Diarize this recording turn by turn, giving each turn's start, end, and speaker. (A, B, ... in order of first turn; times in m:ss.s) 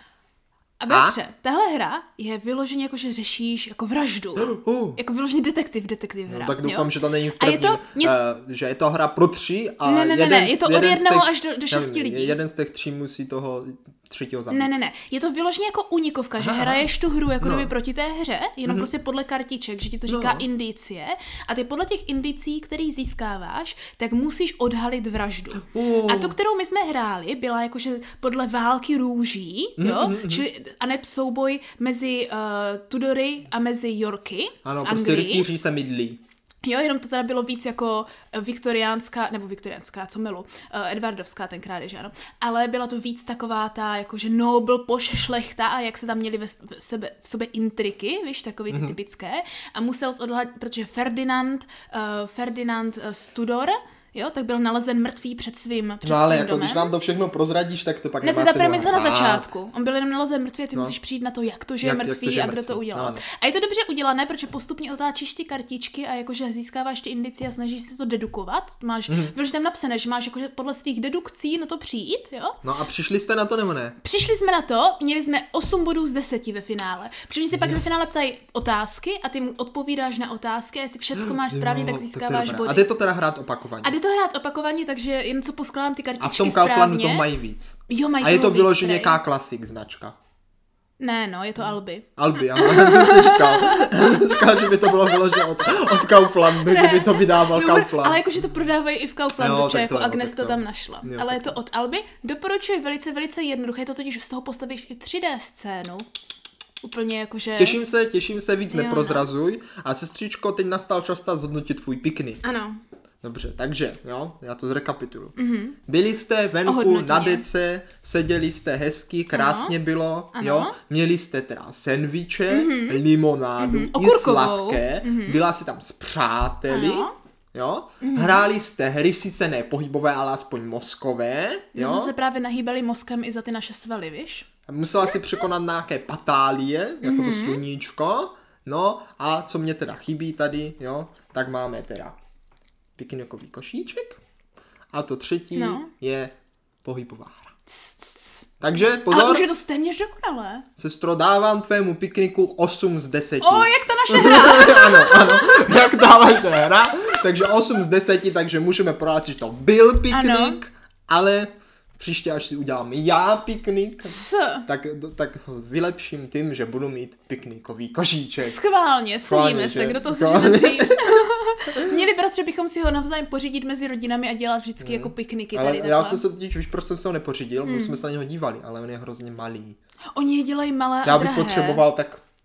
0:00.8-0:08.2 A
0:00.9-0:01.2 B
0:04.4-0:05.0 B
0:06.3-0:14.7 B
0:09.8-0:12.4 A
0:14.5-0:35.5 A
0:16.4-0:16.9 B
0:17.4-0:17.7 B
0:20.1-0:20.4 B
0:25.6-0:26.4 B
0:29.8-0:30.4 B
0:34.6-0:36.2 B
0:36.6-0:56.9 A
0:48.7-0:49.0 B
0:56.0-0:59.5 B
0:58.2-1:12.6 A
1:01.8-1:03.2 B
1:09.1-1:09.3 B
1:12.6-1:14.0 B
1:14.0-1:22.8 A
1:17.5-1:17.8 B
1:21.2-1:24.0 B
1:23.8-1:27.3 A
1:26.2-1:30.1 B
1:27.9-1:29.2 A
1:31.0-1:46.0 A
1:32.2-1:38.4 B
1:39.4-1:41.6 B
1:46.8-1:47.8 A
1:47.6-1:52.4 B
1:48.7-1:49.2 A
1:52.4-1:52.8 A
1:53.2-1:55.4 B
1:55.4-1:55.8 A
1:55.9-2:12.1 B
1:56.6-1:57.4 A
1:59.3-1:59.7 A
2:00.3-2:00.7 A
2:02.5-2:03.0 A
2:03.6-2:05.4 A
2:06.7-2:07.1 A
2:08.0-2:08.4 A
2:11.7-2:14.4 A
2:14.7-2:22.2 B
2:17.0-2:17.6 A
2:23.0-2:24.2 B
2:24.9-2:27.5 B
2:25.5-2:25.9 A
2:27.7-2:30.6 A
2:28.6-2:29.5 B
2:30.8-2:48.6 B
2:33.4-2:36.1 A
2:40.1-2:40.6 A
2:44.0-2:44.6 A
2:48.4-2:56.2 A
2:49.2-2:51.1 B
2:51.7-2:52.0 B
2:54.8-2:59.8 B
2:57.6-2:58.0 A
3:00.1-3:01.8 A
3:01.0-3:02.2 B